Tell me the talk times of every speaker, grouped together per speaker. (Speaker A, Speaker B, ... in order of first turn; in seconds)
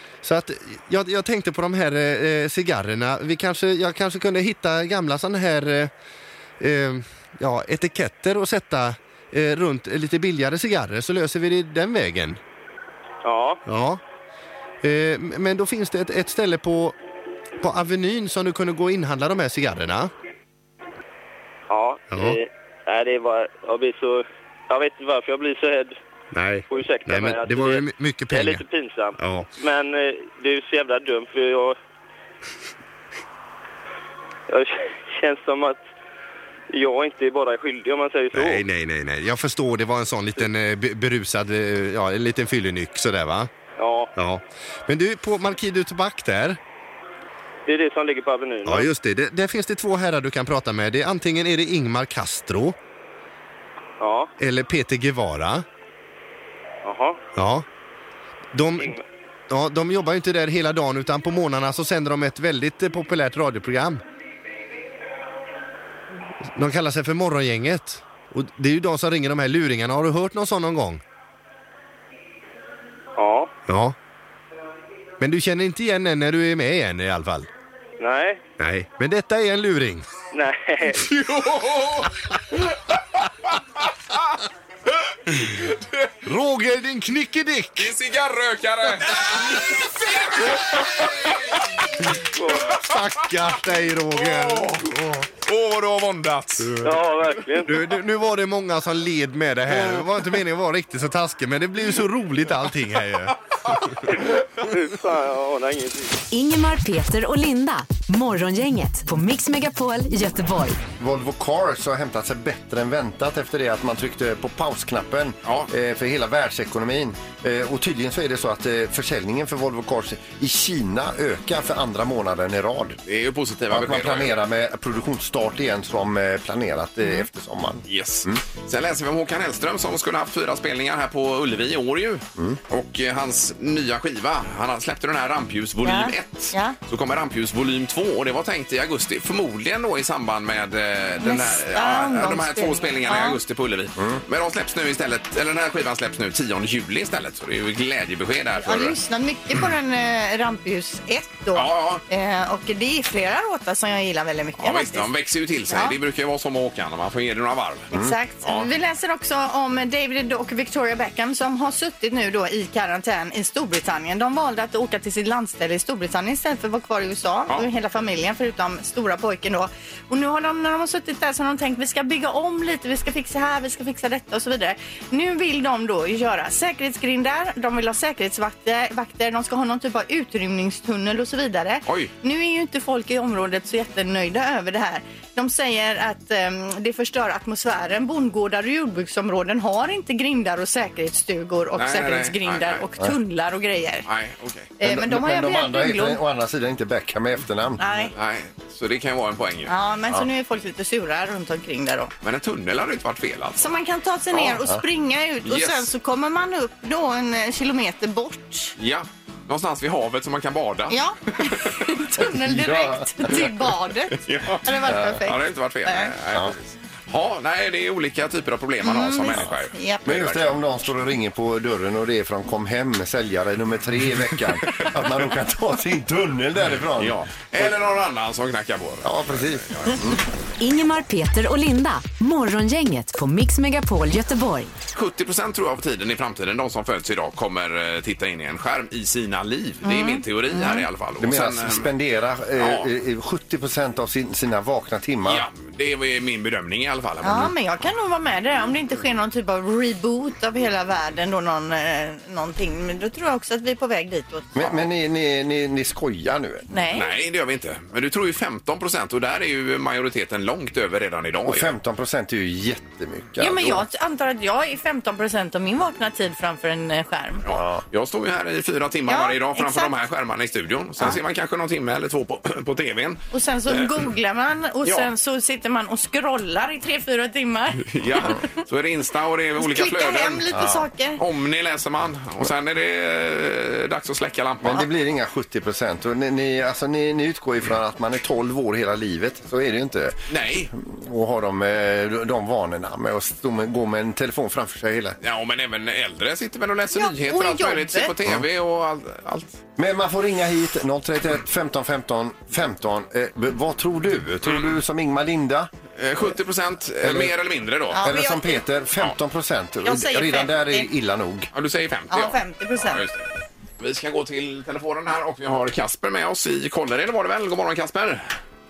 Speaker A: 0.2-5.9, 6.6-12.4, 13.7-14.0, 14.8-16.9, 17.6-20.1, 22.1-22.4, 26.3-28.6, 29.2-29.5, 38.3-43.5, 44.2-46.6, 48.6-52.8, 54.4-55.6, 57.4-57.6, 58.5-59.0, 59.5-64.0, 66.5-71.0, 73.7-74.0, 75.2-77.5, 78.6-80.1, 86.3-87.9, 92.6-95.3, 97.6-103.3
Speaker B: 13.2-13.6, 21.7-25.9, 26.7-31.8, 34.5-35.8, 36.7-38.6, 43.8-44.1, 47.7-48.9, 54.0-54.3, 56.8-57.2, 73.2-73.5, 78.0-78.4, 80.3-81.0, 92.3-92.8, 96.8-97.8, 104.6-106.2
Speaker C: 81.1-82.1, 85.6-86.1, 87.8-91.5, 94.2-94.8, 95.4-96.8, 123.1-124.3, 127.9-149.0, 151.6-152.0, 154.6-157.9, 158.4-158.7, 181.9-182.1, 191.8-192.8, 194.1-194.7, 198.1-199.7, 202.2-203.7, 205.4-205.9, 208.8-211.0, 214.2-220.5, 227.0-230.0, 234.9-241.9, 242.6-242.9, 245.2-247.5, 256.9-261.7, 267.5-274.0, 277.9-280.5, 281.2-284.9, 290.3-290.7, 295.2-299.6, 306.0-308.0, 311.5-313.3, 313.8-318.2
Speaker D: 106.3-110.8, 230.6-234.7
Speaker E: 111.0-123.0, 123.7-128.4, 194.8-197.8, 204.5-204.8, 212.2-213.3, 214.8-215.2, 220.1-227.8, 229.0-230.2, 241.2-245.4, 254.6-256.7, 261.4-263.9, 267.5-267.8, 280.5-280.9, 284.6-295.2, 299.8-305.7, 307.0-307.3, 308.0-311.5
Speaker F: 135.8-136.8, 141.2-143.4, 148.6-155.1, 155.7-156.0, 157.9-194.1, 194.8-196.2, 197.8-198.1, 199.7-202.1, 203.6-208.8, 210.9-216.1, 218.8-220.0, 239.8-240.8, 247.2-254.5, 256.7-257.1, 263.4-267.4, 269.1-269.9, 273.3-278.4, 279.6-281.2, 296.9-298.1, 307.9-308.6, 309.8-310.9, 312.1-313.0